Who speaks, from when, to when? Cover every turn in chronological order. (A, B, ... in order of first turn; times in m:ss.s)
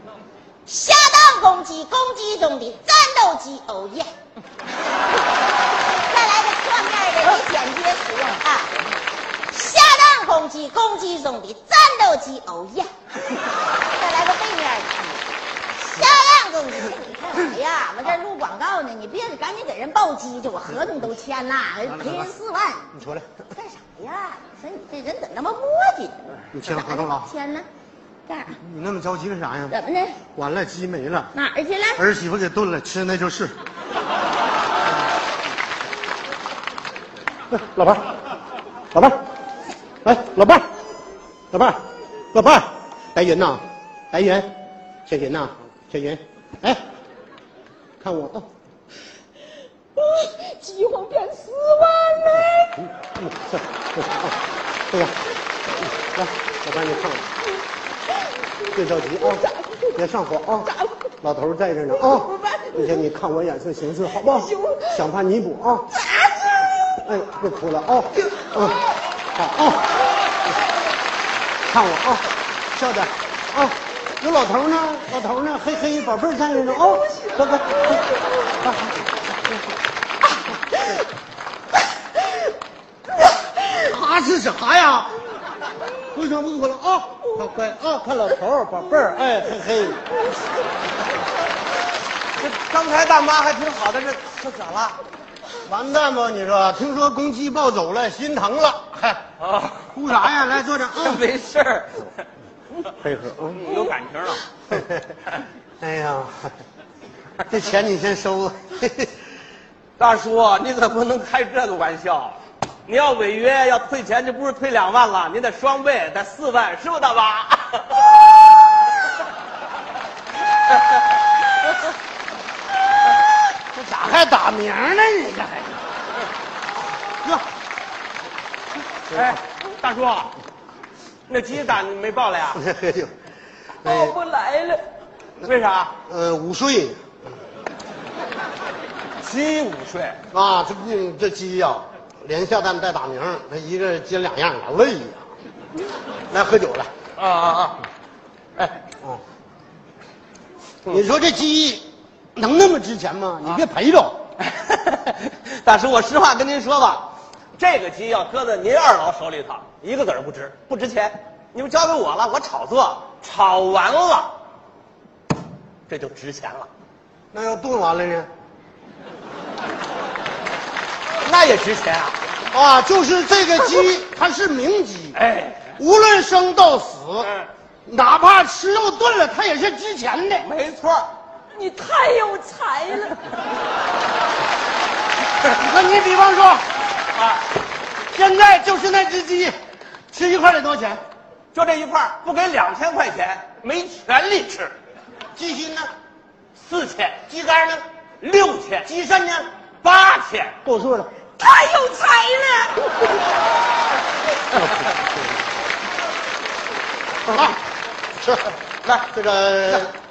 0:00.7-0:04.1 A
0:06.1-0:08.7 A
0:09.5-0:12.9 A
0:13.9-0:15.2 A
0:15.8-0:22.9 A
0:21.9-0:22.3 B
0:22.9-0:23.4 B
0:23.5-0:27.7 A
0:26.5-0:27.3 B
0:28.3-0:28.6 A
0:28.6-0:29.8 B
0:29.7-0:30.2 A
0:30.4-0:31.3 B
0:31.3-0:32.0 A
0:32.0-0:33.6 B
0:37.5-0:38.1 B
0:38.9-0:39.2 B
0:40.0-0:40.7 B
0:41.5-0:41.8 B
0:42.3-0:44.6 B
0:45.1-0:46.8 B
0:48.0-0:48.5 B
0:50.0-0:52.8 A
0:52.9-0:54.4 B
0:54.9-0:57.3 B
0:58.7-1:00.7 B
0:59.3-0:59.9 A
1:00.6-1:01.1 A
1:01.2-1:05.9 B
1:02.1-1:03.0 A
1:04.3-1:05.0 A
1:06.0-1:06.7 A
1:07.0-1:08.8 B
1:09.4-1:10.0 B
1:11.7-1:18.0 B
1:18.6-1:19.0 B
1:23.5-1:25.2 B
1:26.0-1:30.0 B
1:32.4-1:35.0 C
1:35.6-1:39.2 B
1:39.4-1:39.9 C
1:39.9-1:41.3 B
1:41.0-1:42.1 C
1:42.9-1:43.8 B
1:43.5-1:44.4 C
1:44.7-1:45.0 B
1:45.8-1:46.5 B
1:47.5-1:49.2 B
1:50.0-1:58.1 C
2:03.7-2:05.8 B
2:09.1-2:10.3 C
2:09.1-2:09.4 B
2:11.3-2:12.6 C
2:12.5-2:13.1 B
2:13.8-2:14.2 B
2:13.8-2:14.8 C
2:15.4-2:15.9 C
2:16.1-2:17.2 B
2:19.2-2:20.2 C
2:20.3-2:25.3 B
2:26.3-2:26.9 B
2:27.2-2:27.9 C
2:30.9-2:34.2 B
2:34.4-2:44.3 C
2:45.9-2:46.7 C
2:47.3-2:48.3 B
2:51.2-2:52.2 C
2:52.5-2:55.2 B
2:55.2-2:55.8 C
2:55.8-2:57.3 B
2:57.2-2:57.5 C
2:57.9-3:00.5 B
3:00.4-3:01.1 C
3:01.6-3:03.2 A
3:05.5-3:06.7 B
3:07.1-3:07.4 C
3:08.1-3:09.6 B
3:10.1-3:11.0 B
3:11.5-3:14.7 C
3:15.4-3:15.9 B
3:16.6-3:17.2 C
3:17.3-3:17.8 B
3:18.2-3:18.9 C
3:18.8-3:19.5 B
3:19.8-3:20.6 C
3:20.6-3:21.1 B
3:21.4-3:22.8 C
3:21.6-3:22.7 A
3:24.6-3:25.3 B
3:27.3-3:27.6 B
3:28.2-3:28.5 B
3:29.1-3:29.9 B